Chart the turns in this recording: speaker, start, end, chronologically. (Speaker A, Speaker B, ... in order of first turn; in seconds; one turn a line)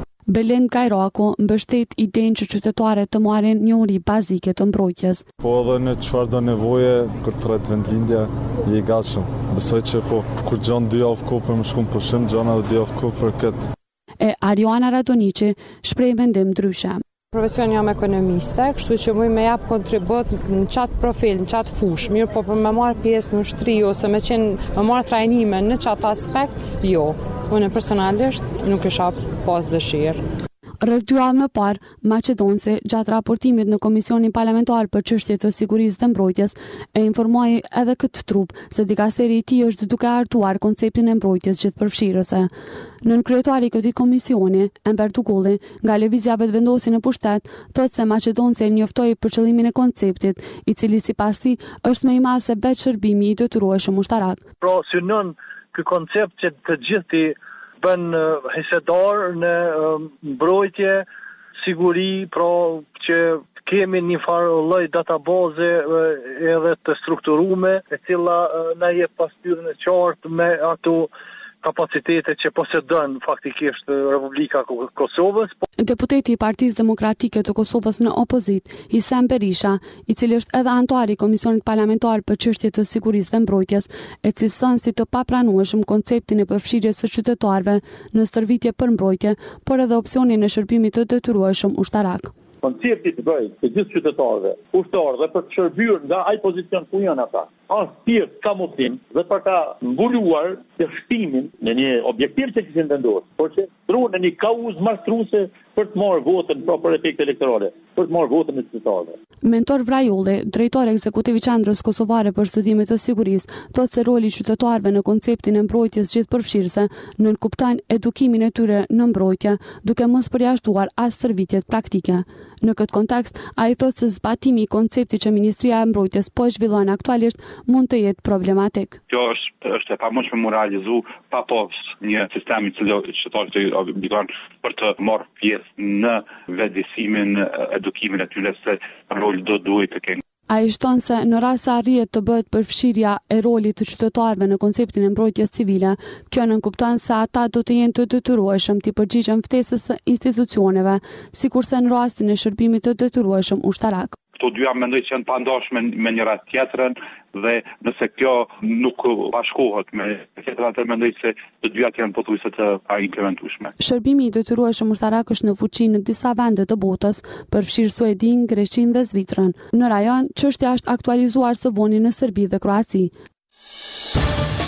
Speaker A: 0.3-5.2
Speaker B: 5.5-13.6
Speaker A: 14.2-17.0
Speaker C: 17.3-30.2
Speaker A: 30.8-42.5
Speaker A: 43.0-54.4
Speaker D: 54.6-61.1
Speaker D: 61.6-71.1
Speaker D: 71.6-75.6
Speaker A: 75.8-92.3
Speaker E: 92.6-109.2
Speaker A: 109.4-129.0
Speaker F: 129.1-140.2
Speaker A: 140.5-154.2
Speaker F: 154.4-163.7
Speaker A: 163.8-173.1